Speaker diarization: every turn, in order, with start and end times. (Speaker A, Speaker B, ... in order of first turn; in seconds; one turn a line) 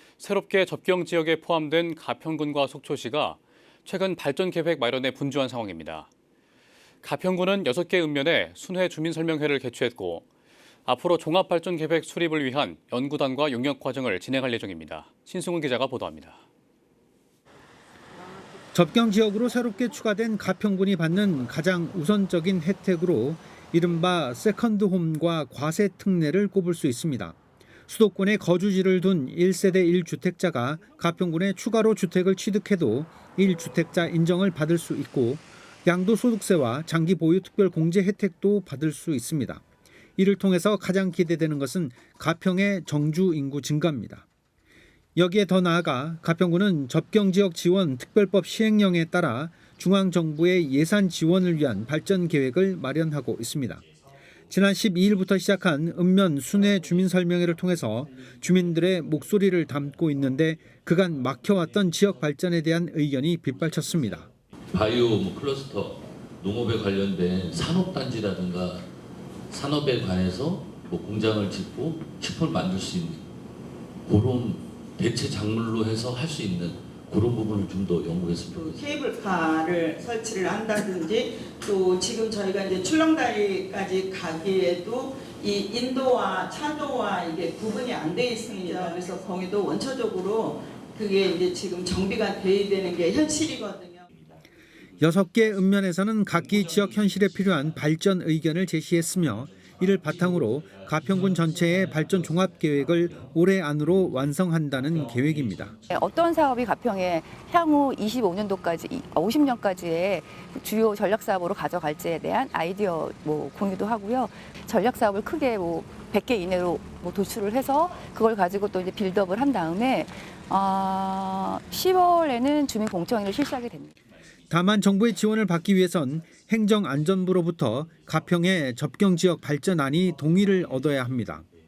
Speaker A: 0.2-6.1
Speaker A: 7.0-10.2
Speaker A: 10.8-16.4
Speaker B: 18.7-27.4
Speaker B: 27.9-39.6
Speaker B: 40.2-44.3
Speaker B: 45.1-53.8
Speaker B: 54.5-64.3
Speaker C: 64.7-68.8
Speaker C: 69.5-73.2
Speaker C: 74.0-79.0
Speaker D: 78.5-94.1
Speaker B: 95.0-105.8
Speaker E: 105.9-123.9
Speaker B: 124.5-131.5